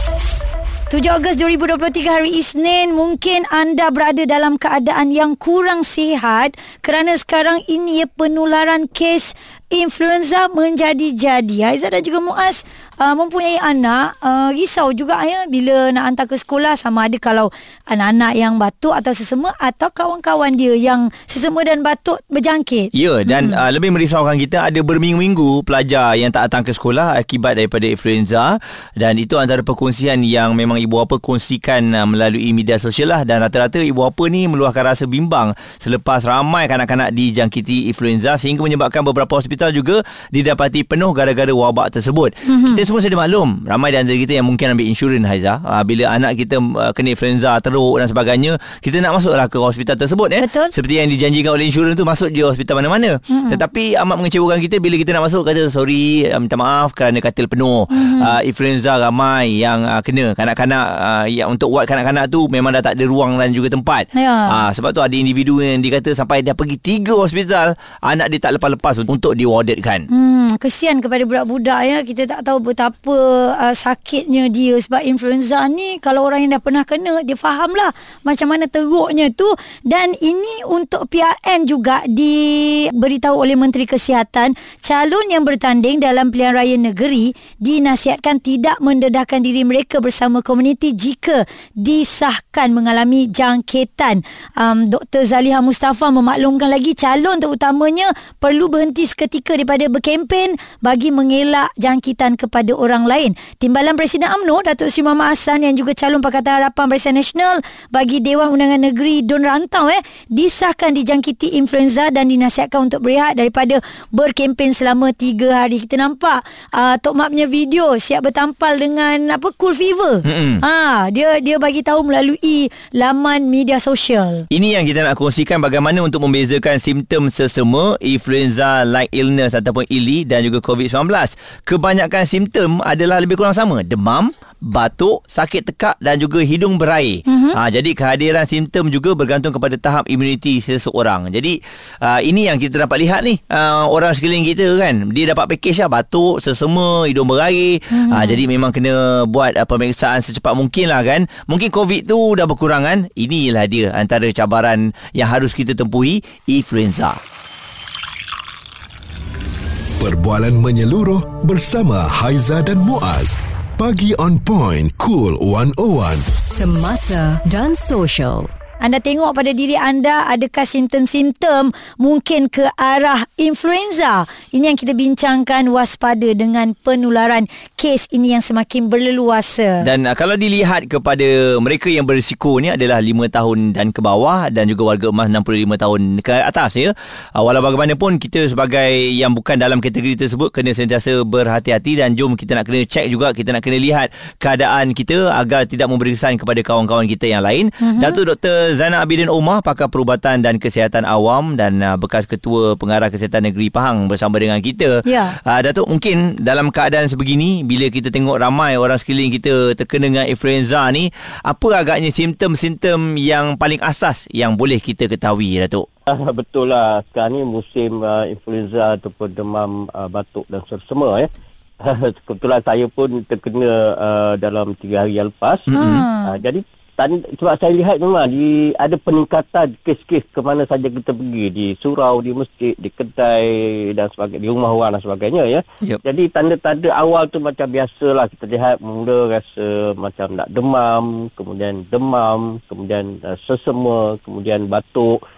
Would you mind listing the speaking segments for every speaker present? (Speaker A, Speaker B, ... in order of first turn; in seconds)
Speaker A: 0.9-23.6, 42.5-42.8, 50.4-50.7, 53.3-53.6, 57.9-58.3, 64.1-64.6, 70.1-124.5, 137.3-137.6, 147.9-148.4, 168.8-179.9, 197.8-198.2, 205.1-205.3, 225.7-226.4
Speaker B: 22.9-70.0, 120.2-120.6, 124.5-157.2, 179.8-215.8, 225.7-226.0
Speaker C: 160.0-166.2
Speaker D: 166.5-168.5
Speaker E: 216.1-221.3, 221.8-225.7, 226.2-245.2